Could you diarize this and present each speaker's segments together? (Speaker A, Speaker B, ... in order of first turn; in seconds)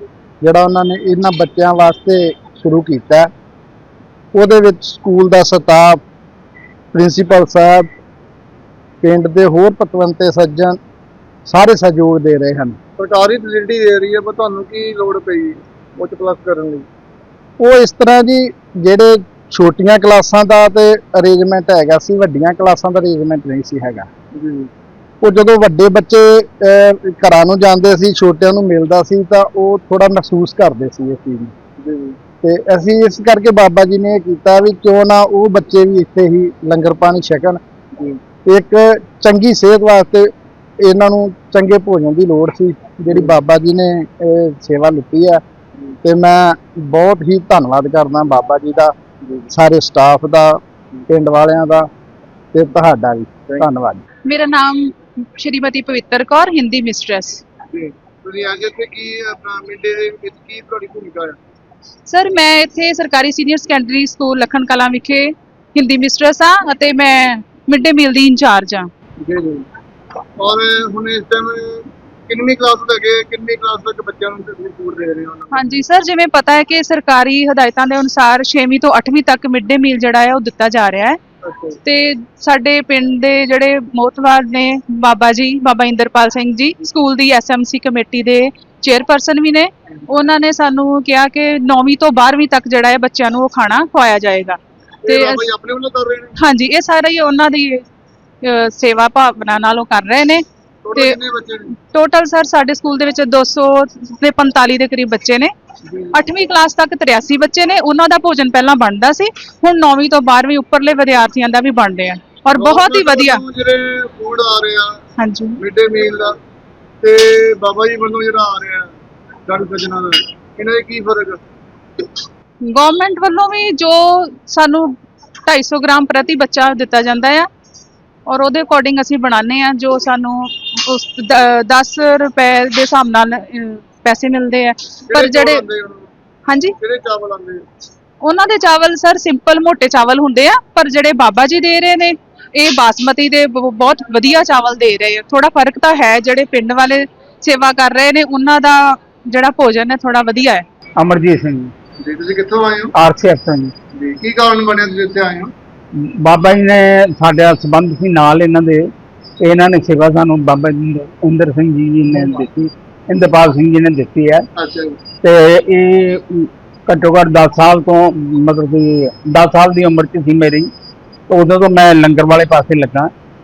Speaker A: 0.4-3.3, 4.3-6.0, 6.9-7.9, 9.0-10.8, 11.5-12.8, 17.6-24.1, 25.2-31.5, 32.4-37.6, 38.5-40.3, 40.8-45.4, 46.0-48.9, 49.5-50.6, 51.1-51.9, 52.5-54.0
Speaker B: 13.0-16.9, 24.3-24.7, 31.8-32.2, 43.1-43.4, 57.7-61.4, 69.2-69.7, 70.4-75.8, 81.4-81.8, 95.0-96.3, 100.8-101.7, 105.9-106.2, 112.5-115.0, 115.6-116.3, 117.0-118.9, 119.5-121.4, 135.1-136.1, 136.8-137.6, 152.0-152.9, 153.9-155.5, 162.1-162.4, 164.6-165.0
Speaker C: 54.3-57.4, 62.1-68.9, 75.5-81.2, 81.8-95.5, 96.4-97.8, 98.4-100.4, 101.9-105.5, 106.1-113.4, 115.2-115.5, 122.6-124.9, 125.5-127.5, 128.3-135.6, 136.5-136.7, 138.2-150.6
Speaker D: 151.0-151.7, 152.9-153.7, 155.9-158.9, 159.4-164.5, 165.2-170.7, 171.3-173.1